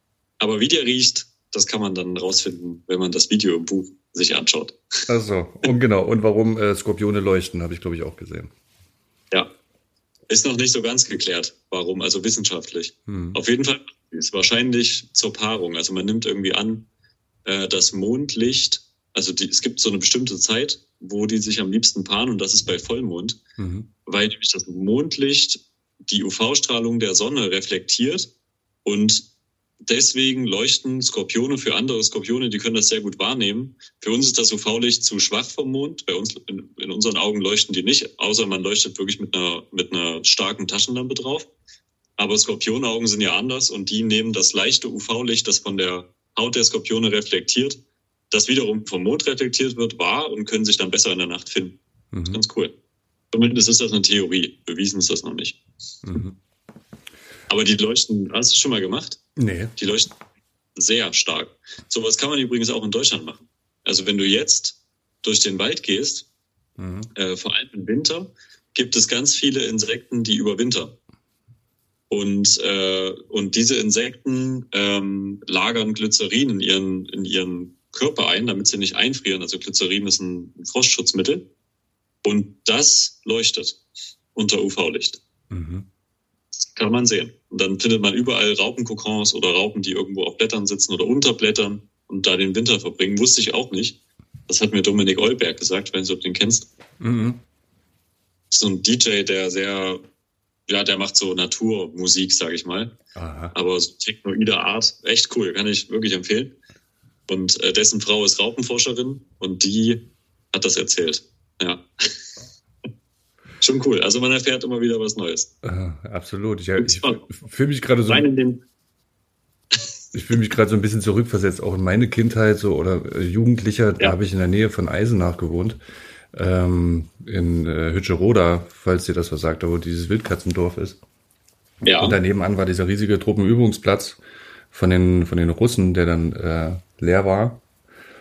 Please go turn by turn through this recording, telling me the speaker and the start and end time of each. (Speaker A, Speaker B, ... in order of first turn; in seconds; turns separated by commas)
Speaker A: 0.4-5.0, Speaker B: 5.1-8.5, Speaker A: 10.3-16.8, Speaker B: 13.1-13.4, Speaker A: 17.4-23.4, Speaker B: 23.6-23.9, Speaker A: 24.1-28.3, Speaker A: 28.8-29.2, Speaker A: 29.8-41.5, Speaker A: 42.2-47.8, Speaker A: 48.3-51.8, Speaker B: 52.1-52.4, Speaker A: 52.3-52.7, Speaker A: 53.3-55.6, Speaker B: 56.0-56.4, Speaker A: 57.5-59.2, Speaker B: 59.4-59.7, Speaker A: 59.8-60.1, Speaker A: 60.8-66.2, Speaker B: 66.8-67.1, Speaker A: 67.1-70.9, Speaker A: 72.1-81.4, Speaker A: 82.2-83.8, Speaker A: 84.3-85.2, Speaker B: 85.5-85.8, Speaker A: 86.5-94.0, Speaker A: 94.5-96.7, Speaker B: 97.0-97.4, Speaker A: 98.5-100.0, Speaker A: 100.7-102.9, Speaker B: 103.1-103.5, Speaker A: 103.5-106.5, Speaker A: 107.3-110.0, Speaker A: 110.5-112.3, Speaker A: 113.6-115.5, Speaker B: 115.6-118.3, Speaker A: 116.8-117.2, Speaker A: 118.1-118.6, Speaker B: 120.1-125.8, Speaker B: 126.3-131.0, Speaker A: 131.8-132.2, Speaker B: 131.9-134.2, Speaker B: 134.7-137.6